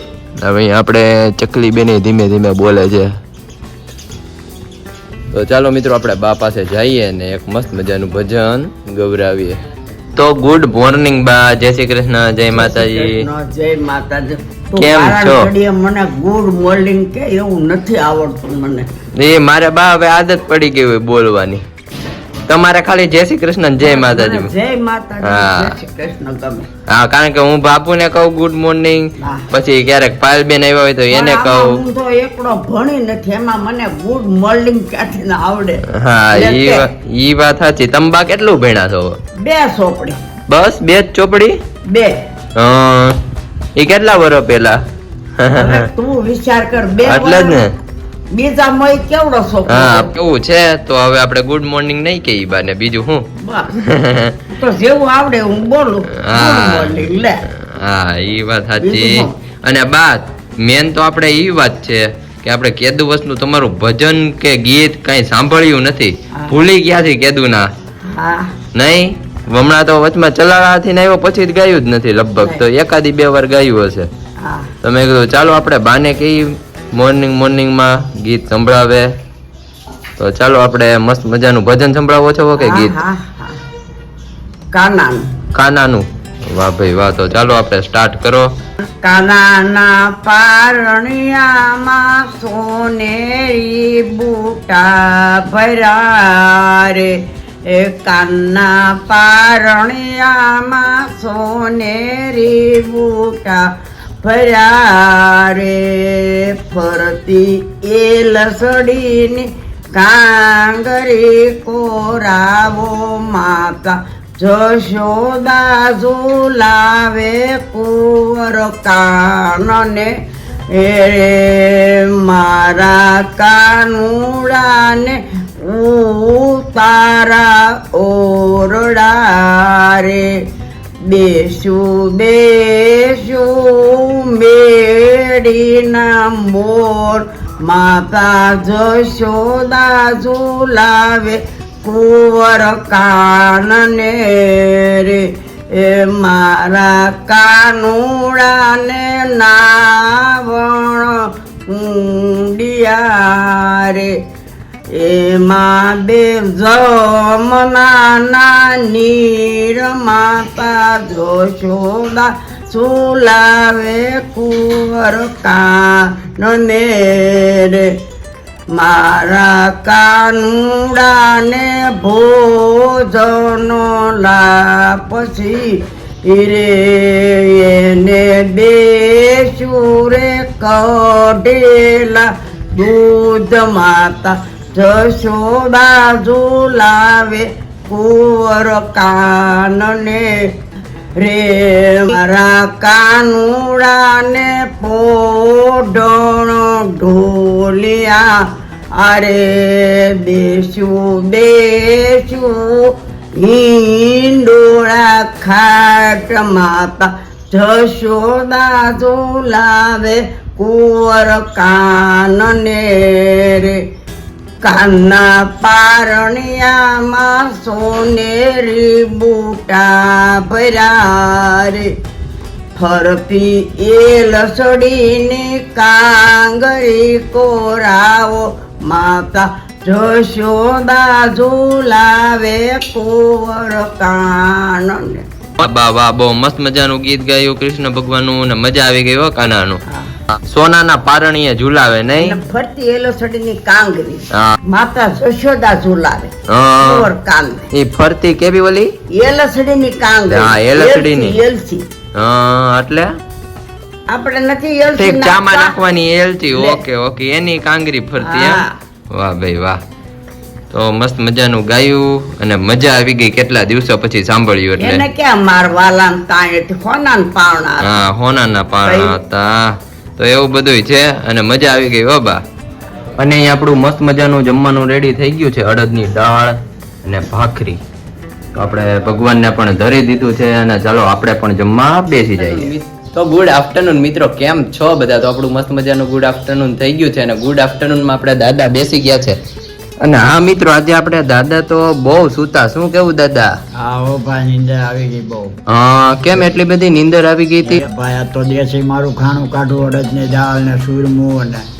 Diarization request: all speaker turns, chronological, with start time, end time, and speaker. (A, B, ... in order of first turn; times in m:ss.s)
0:00.4-0:03.1 A
0:05.3-0:09.6 A
0:10.2-0:13.3 A
0:12.5-0:18.9 B
0:14.8-0:15.5 A
0:19.2-0:21.6 A
0:22.5-0:24.5 A
0:23.8-0:26.7 B
0:25.2-0:25.8 A
0:26.9-0:31.8 A
0:29.2-0:29.5 B
0:31.1-0:36.9 B
0:35.9-0:39.2 A
0:39.4-0:40.2 B
0:40.5-0:41.6 A
0:41.8-0:42.2 B
0:42.6-0:43.2 A
0:43.8-0:44.8 A
0:45.4-0:45.9 A
0:45.6-0:47.6 B
0:47.0-0:47.7 A
0:48.3-0:50.1 B
0:49.7-0:53.2 A
0:53.4-0:53.7 B
0:53.8-0:54.3 A
0:54.5-0:57.4 B
0:56.1-1:07.6 A
0:58.8-0:59.3 B
1:08.1-1:08.5 B
1:08.7-1:14.1 A
1:14.4-1:14.7 B
1:14.8-1:19.1 A
1:20.2-1:22.9 A
1:22.5-1:23.6 B
1:24.7-1:25.3 B
1:25.5-1:28.5 A
1:29.0-2:00.2 B
2:00.7-2:10.5 B
2:11.0-2:34.2 B
2:34.9-2:48.0 B
2:48.7-3:10.6 B
3:11.2-3:33.8 B
3:34.6-3:42.0 B
3:42.7-3:55.2 B
3:55.6-3:59.8 A
4:00.3-4:02.4 A
4:02.2-4:07.7 B
4:06.5-4:07.1 A
4:07.7-4:08.9 A
4:09.1-4:11.9 B
4:10.3-4:11.4 A
4:12.2-4:13.1 A
4:14.1-4:15.8 B
4:15.0-4:19.8 A
4:16.5-4:16.8 B
4:18.2-4:18.7 B
4:20.7-4:25.0 A
4:24.8-4:28.0 B
4:27.8-4:32.4 A
4:28.8-4:29.1 B
4:33.2-4:37.8 A
4:38.5-4:49.4 A
4:50.0-4:53.5 A
4:53.8-4:55.5 C
4:55.7-4:57.8 A
4:57.6-5:01.6 C